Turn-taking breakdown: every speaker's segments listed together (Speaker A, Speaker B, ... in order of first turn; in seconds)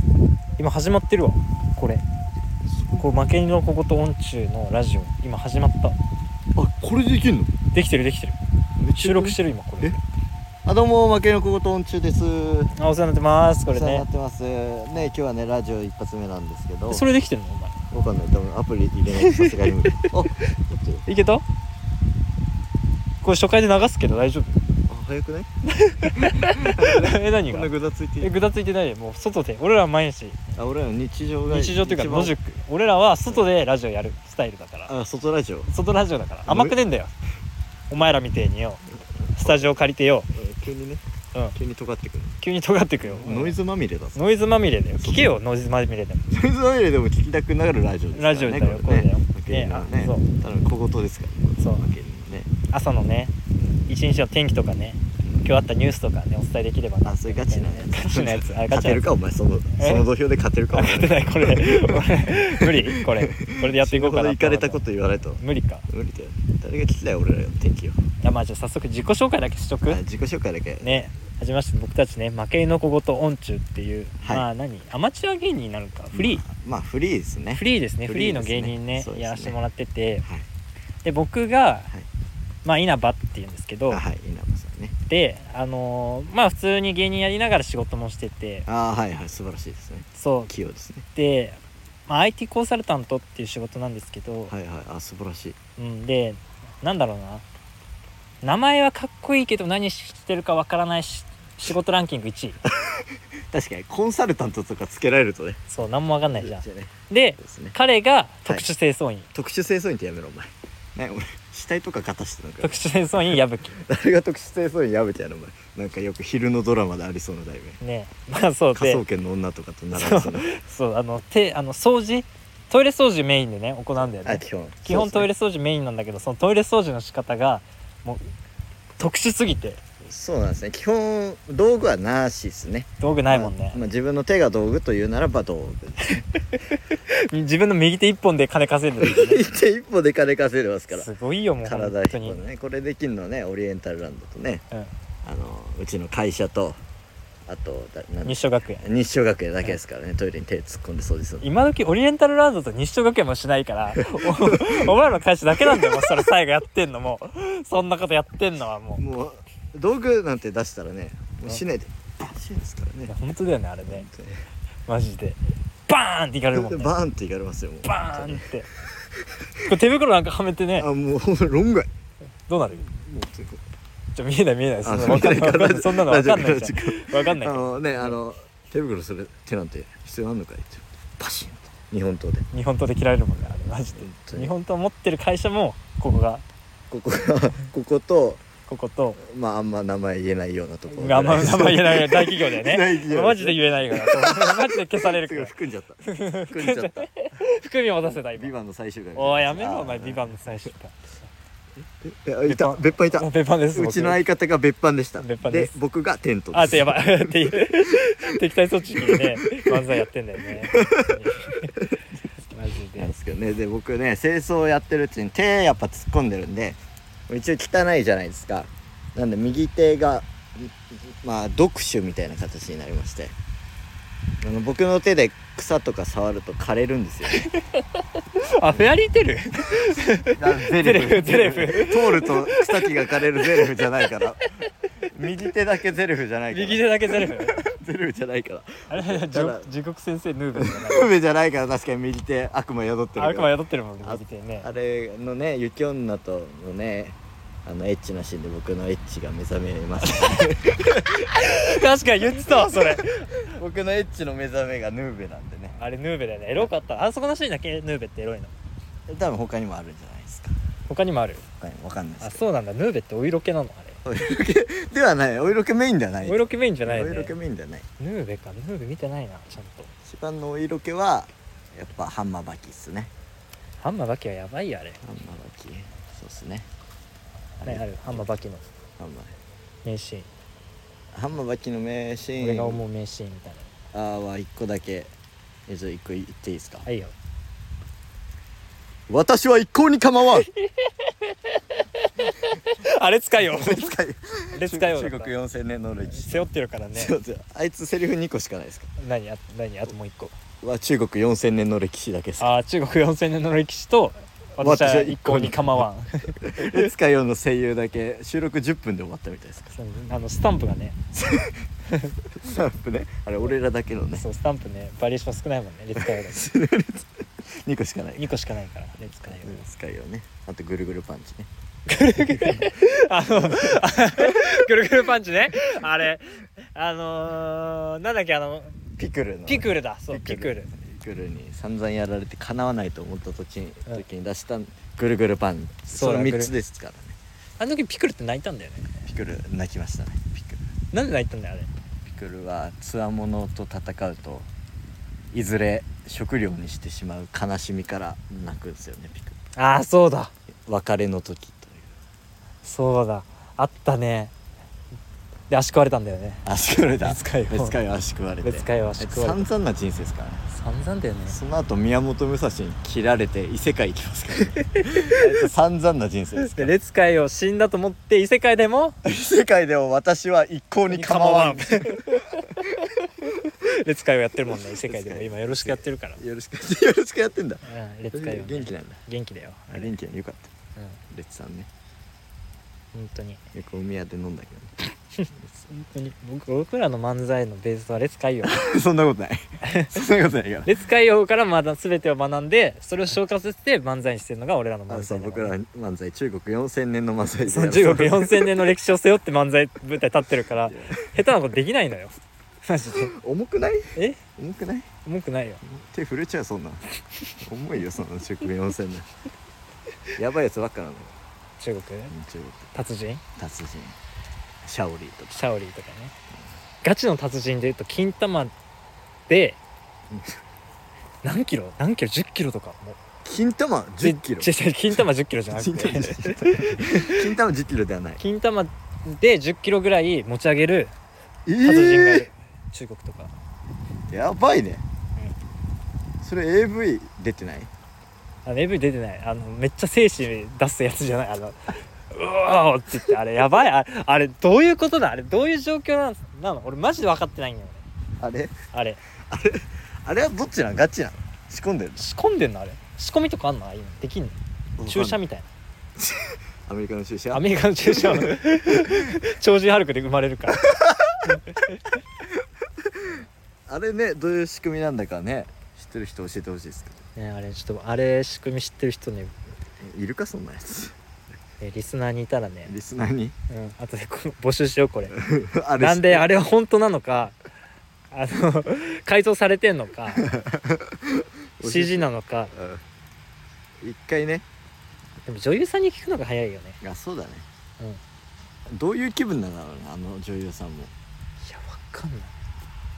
Speaker A: 0.6-2.0, 3.0-6.0, 7.7-8.4, 8.9-10.0, 12.8-14.0, 16.9-17.8, 19.1-20.1, 21.1-21.4, 23.2-24.6, 25.7-30.4, 31.5-34.9, 35.7-37.1, 37.9-38.8, 39.3-40.3, 42.4-43.6, 44.1-46.3, 48.1-50.3, 51.6-51.9, 52.7-53.3, 53.9-59.1, 59.8-60.0, 60.7-65.9, 68.2-70.0, 70.8-76.4, 77.5-80.2, 81.0-81.9, 82.6-84.0, 85.1-88.7, 90.1-90.5, 91.1-94.5, 95.8-97.4, 98.4-102.6, 105.7-109.3, 112.6-113.8, 117.8-119.0, 119.9-128.3, 129.0-129.8, 133.0-133.8, 136.7-139.4, 140.9-142.4, 148.2-148.8, 151.4-159.0, 163.1-164.1, 164.9-166.9, 167.8-168.7, 169.7-170.9, 172.5-172.9, 174.1-178.2, 182.5-186.4, 188.7-189.2, 190.9-195.5, 196.0-198.5, 199.1-201.2, 202.4-204.2, 205.2-205.8, 206.5-211.8, 212.5-213.1, 227.3-227.8, 228.3-234.2, 236.5-237.7, 238.9-241.1, 243.2-244.7, 250.0-253.4, 255.8-258.5, 260.9-261.5, 262.2-264.0, 266.2-267.4, 268.0-269.9, 273.8-275.0, 277.6-278.7, 279.9-280.3, 282.4-283.7, 286.9-287.1, 290.6-293.9, 294.5-295.3, 296.1-297.1, 299.0-300.3, 302.4-306.9, 309.8-311.0, 311.9-312.2, 314.2-316.5, 318.2-319.6, 321.9-328.8, 329.5-330.7, 335.9-336.5, 337.6-338.9, 340.9-341.7, 349.6-350.3, 352.6-354.3, 355.5-356.5, 357.0-357.8, 358.4-359.5, 360.5-361.4, 364.6-365.2, 366.4-369.0, 370.9-376.2, 377.7-379.9, 382.9-383.4, 385.2-388.6, 389.6-390.0, 390.6-395.5, 397.5-403.1, 404.0-404.2, 405.0-405.6, 411.6-412.1, 412.7-413.2, 415.3-416.1, 416.8-418.5, 419.3-419.6, 421.2-423.0, 424.0-427.3, 428.2-430.9, 431.6-433.3, 438.4-447.8, 448.7-449.0, 452.0-455.5, 457.3-461.9, 467.2-469.4, 471.6-472.7, 473.5-475.2, 475.8-477.4, 478.1-480.3, 481.6-482.5, 485.2-486.8, 491.4-492.3
Speaker B: 2.7-3.0, 6.5-7.5, 8.8-10.0, 10.6-12.7, 13.7-17.1, 17.9-21.0, 24.9-25.5, 26.1-28.4, 30.6-32.4, 34.9-35.7, 36.5-36.8, 39.1-39.8, 40.3-41.0, 41.5-42.4, 43.0-44.2, 45.0-45.4, 46.3-52.5, 57.0-68.0, 69.8-71.1, 74.2-74.5, 76.1-79.5, 83.9-84.9, 88.7-91.1, 94.5-95.6, 102.7-105.6, 106.3-107.8, 109.3-112.8, 113.7-117.8, 118.7-120.5, 124.1-125.3, 130.0-136.2, 139.0-141.1, 141.6-144.6, 145.2-146.8, 147.5-151.4, 153.9-154.9, 155.5-156.2, 159.0-163.1, 163.9-164.4, 166.5-168.4, 169.0-169.7, 170.8-171.9, 172.8-173.6, 174.8-182.5, 184.0-184.5, 186.9-188.4, 189.2-197.1, 198.3-200.2, 202.0-208.1, 208.9-210.0, 210.5-212.0, 213.0-223.3, 224.4-227.4, 230.2-234.5, 235.1-239.7, 240.6-255.8, 259.1-260.6, 261.6-262.4, 264.1-267.9, 270.1-273.1, 275.0-276.7, 277.6-278.3, 279.0-279.4, 281.1-282.8, 283.9-285.1, 285.7-286.9, 289.1-290.5, 293.4-298.9, 300.6-302.5, 304.6-305.9, 306.4-309.8, 311.1-311.7, 312.2-314.2, 316.0-318.3, 319.3-321.5, 322.3-322.7, 323.3-323.7, 324.2-324.5, 329.0-337.2, 339.1-340.6, 342.1-344.5, 345.3-349.4, 350.7-351.9, 356.4-360.4, 361.3-366.8, 369.0-372.9, 374.5-379.0, 379.7-380.5, 381.1-381.7, 383.5-384.8, 385.4-385.7, 388.4-390.8, 394.9-398.7, 400.6-401.1, 402.9-404.9, 405.6-406.8, 407.4-409.1, 410.2-411.2, 412.1-412.7, 413.4-414.0, 414.6-415.4, 420.1-420.4, 423.2-424.5, 425.5-428.2, 431.5-432.3, 434.1-434.8, 436.2-437.7, 448.2-448.6, 449.3-452.0, 454.8-455.2, 456.0-458.9, 460.6-461.4, 462.8-467.1, 469.8-471.0, 472.7-473.4, 475.1-476.3, 480.2-482.8, 483.8-484.4, 486.8-487.5, 488.7-490.9